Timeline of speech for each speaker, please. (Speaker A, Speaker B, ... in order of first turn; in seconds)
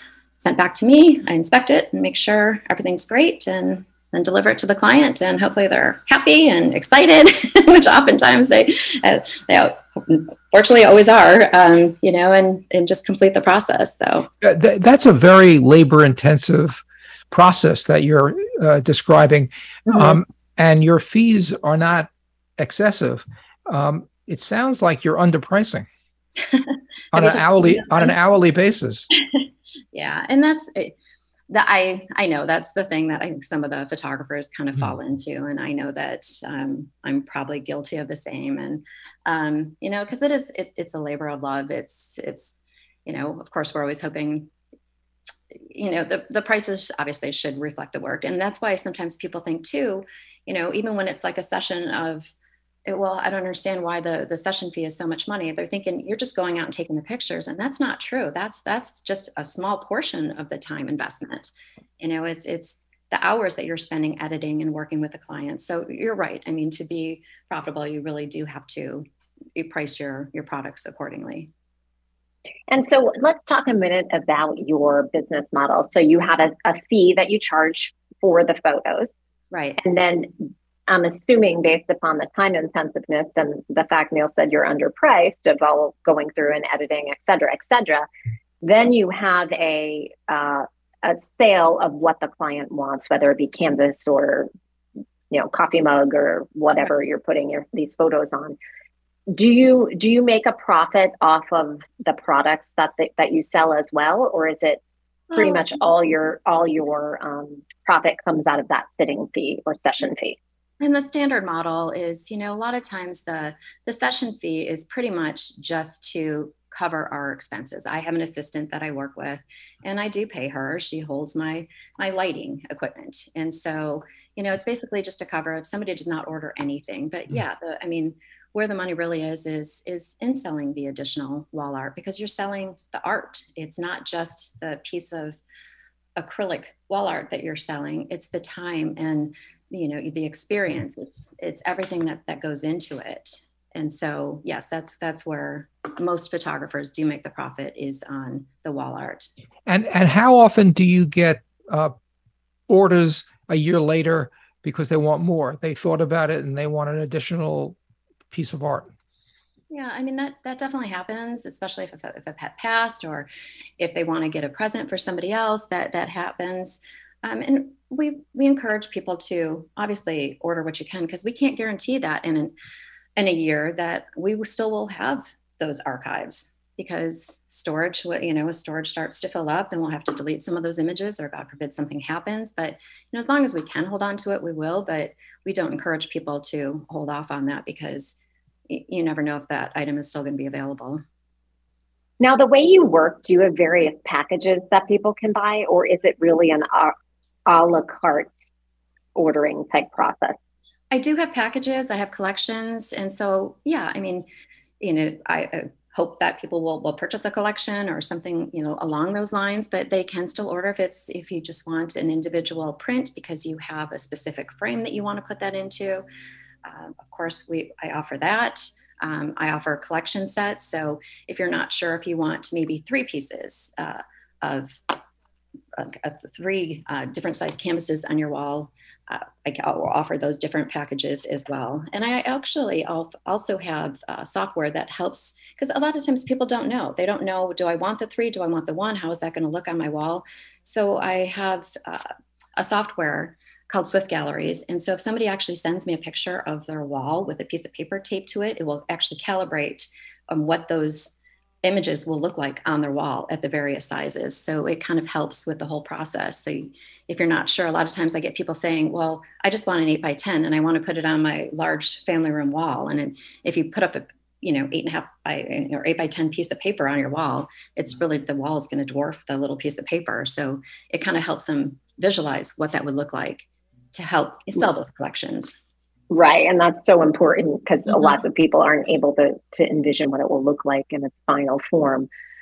Speaker A: 0.4-14.3, 19.9-20.2, 26.5-28.1, 29.9-30.9, 31.5-44.5, 45.7-52.3, 52.9-71.5, 79.5-79.8, 110.8-135.4, 136.2-149.3, 159.7-163.3, 163.8-172.5, 173.2-191.0, 200.9-204.2, 204.8-216.0, 216.6-225.0, 225.8-275.6
Speaker B: 14.4-25.9, 27.1-29.1, 149.7-151.9, 152.7-157.8, 158.3-158.9
Speaker C: 72.7-79.2, 79.8-88.1, 88.6-94.5, 95.3-98.6, 99.3-104.8, 105.3-110.4, 192.2-196.9, 197.5-198.4, 199.1-200.4, 276.1-282.1